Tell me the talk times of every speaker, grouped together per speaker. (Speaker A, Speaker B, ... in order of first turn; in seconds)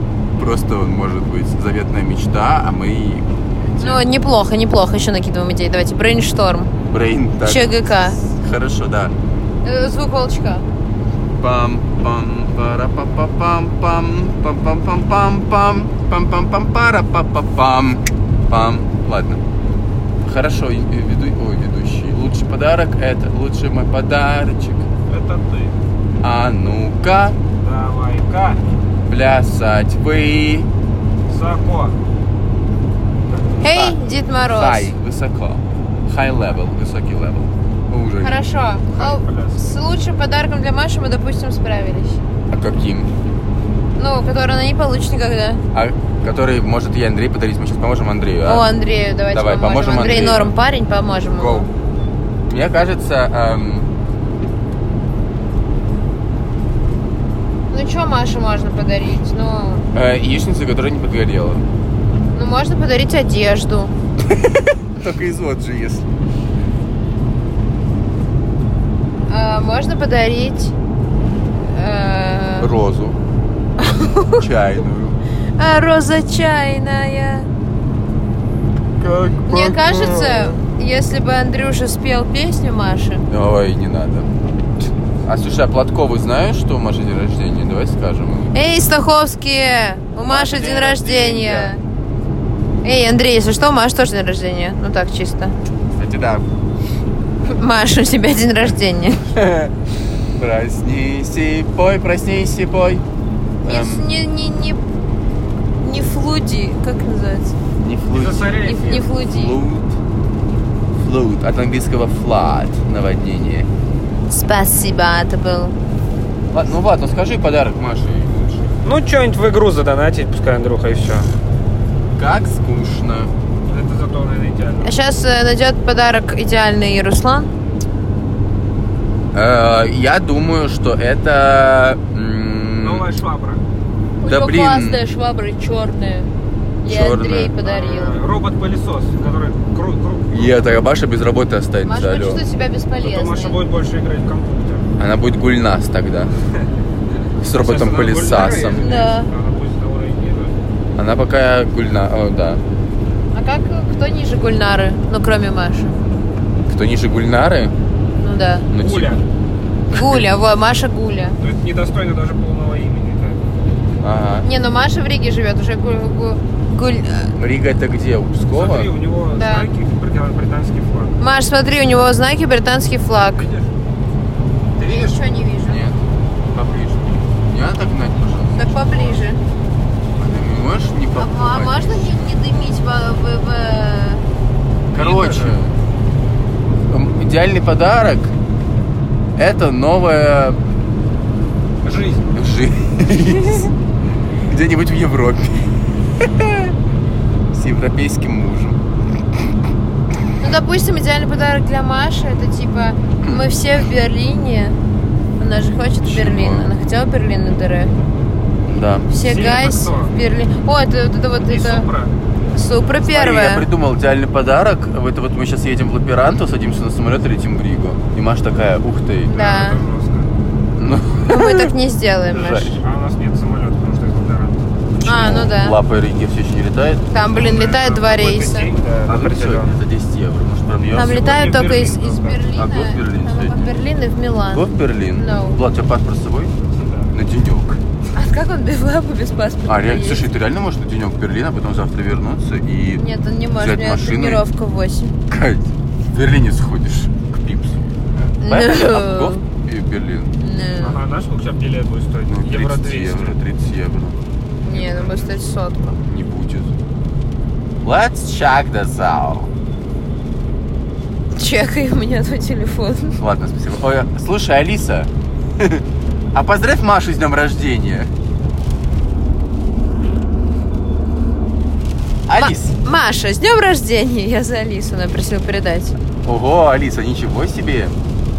Speaker A: 0.4-4.0, 6.9-9.1, 11.4-19.4, 20.2-24.9, 26.2-27.4, 29.1-30.7, 33.6-38.4, 42.5-43.1, 45.7-48.6, 49.3-50.5, 51.3-51.7, 52.5-53.9, 59.9-61.7, 64.2-66.0, 72.6-73.2, 74.3-75.2, 79.0-80.6, 83.3-84.3, 85.2-88.5, 90.2-91.7, 95.9-96.4, 99.3-99.7, 100.3-103.0, 103.6-104.0, 107.8-108.6, 109.1-110.0, 111.0-113.7, 116.5-118.6, 122.2-123.3, 129.3-133.1, 134.2-135.0, 136.8-137.5, 140.3-142.4, 145.0-146.3, 147.4-148.8, 150.9-152.6, 156.7-157.7, 158.7-159.2, 159.9-160.2, 164.0-164.5, 167.3-168.9, 175.7-176.0, 176.5-179.2, 180.2-182.2, 184.9-185.7, 186.9-188.3, 189.4-190.6, 192.3-193.7, 194.5-196.7, 197.5-198.8, 203.2-203.5, 206.0-206.7, 208.7-209.1, 213.0-219.5, 220.8-221.7, 222.3-222.7, 225.0-227.1, 229.1-231.4, 232.5-233.7, 234.5-236.5, 237.1-237.8, 239.7-243.0, 243.6-244.4, 245.3-247.8, 248.5-250.3, 252.3-254.2, 256.1-256.7, 257.8-259.5, 263.2-268.1, 272.3-272.7, 276.2-277.9
Speaker B: 3.8-6.7, 7.4-8.2, 9.6-10.6, 33.6-34.9, 38.2-42.2, 44.0-45.6, 48.4-51.7, 57.7-59.9, 62.3-63.9, 69.3-70.7, 71.7-72.7, 73.8-74.5, 75.6-77.5, 79.5-83.2, 88.5-91.8, 92.8-95.5, 97.5-99.2, 103.6-104.8, 105.8-107.5, 108.6-109.6, 114.3-115.7, 124.8-127.5, 134.2-136.3, 136.8-138.2, 141.8-143.6, 148.8-149.3, 153.3-155.9, 158.2-158.7, 159.9-161.4, 164.4-167.3, 169.3-169.7, 171.2-173.5, 174.8-175.8, 178.6-179.4, 181.2-184.2, 200.4-204.8, 205.4-207.9, 209.1-211.9, 212.5-213.7, 219.3-219.8, 221.3-222.7, 225.1-225.8, 227.1-228.7, 230.9-235.6, 238.1-240.2, 243.0-245.1, 248.4-249.4, 250.4-251.0, 254.6-256.0, 261.3-263.2, 272.4-275.9
Speaker C: 25.1-25.8, 27.6-28.6, 31.3-31.9, 33.3-33.6, 38.9-39.8, 108.1-109.1, 118.8-121.3, 123.7-125.0, 132.8-133.6, 137.6-140.8, 143.0-144.9, 146.6-150.6, 158.8-159.2, 161.4-163.7, 168.5-171.2, 173.4-173.7, 174.8-175.2, 184.9-185.6, 191.8-192.3, 209.2-210.1, 211.5-212.1, 219.3-220.3, 222.3-224.7, 227.3-229.8, 230.7-232.4, 236.7-237.1, 250.8-253.3, 254.7-255.3